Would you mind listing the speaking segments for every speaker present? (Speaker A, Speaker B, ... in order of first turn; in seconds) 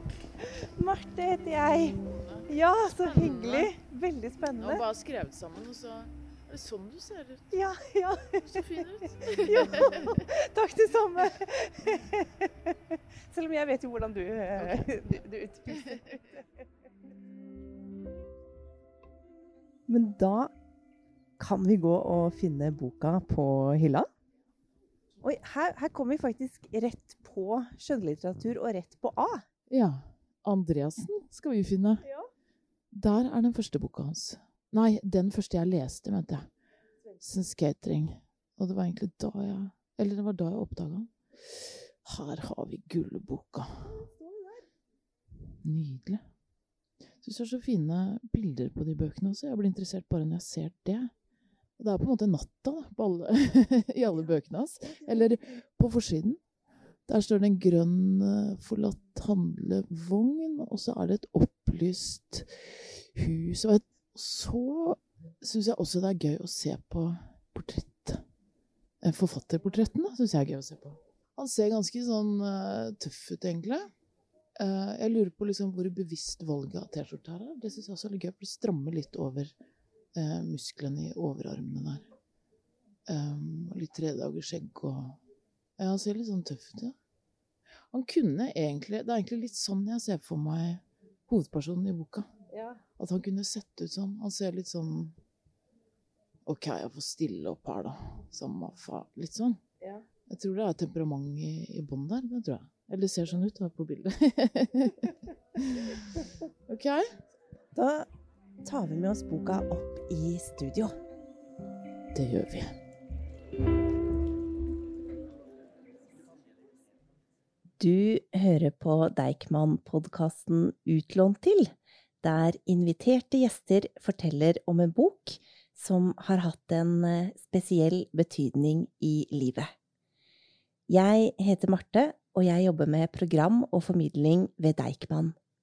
Speaker A: 0.4-4.8, 7.5-16.4, 19.9-20.5, 21.4-24.1, 25.2-29.4, 43.9-44.6, 92.5-92.8, 107.8-108.1, 108.6-111.0, 117.8-129.7, 130.9-135.4
Speaker B: 3.0-3.8, 4.6-7.6, 8.3-10.3, 14.6-14.9, 29.7-32.0, 32.9-36.5, 37.2-44.0, 45.6-46.2, 47.2-51.1, 51.8-56.4, 57.1-68.2, 69.0-73.9, 74.6-79.5, 80.2-82.1, 83.1-85.2, 85.8-87.0, 87.9-92.3, 93.0-95.2, 96.5-99.6, 100.3-107.0, 112.1-112.7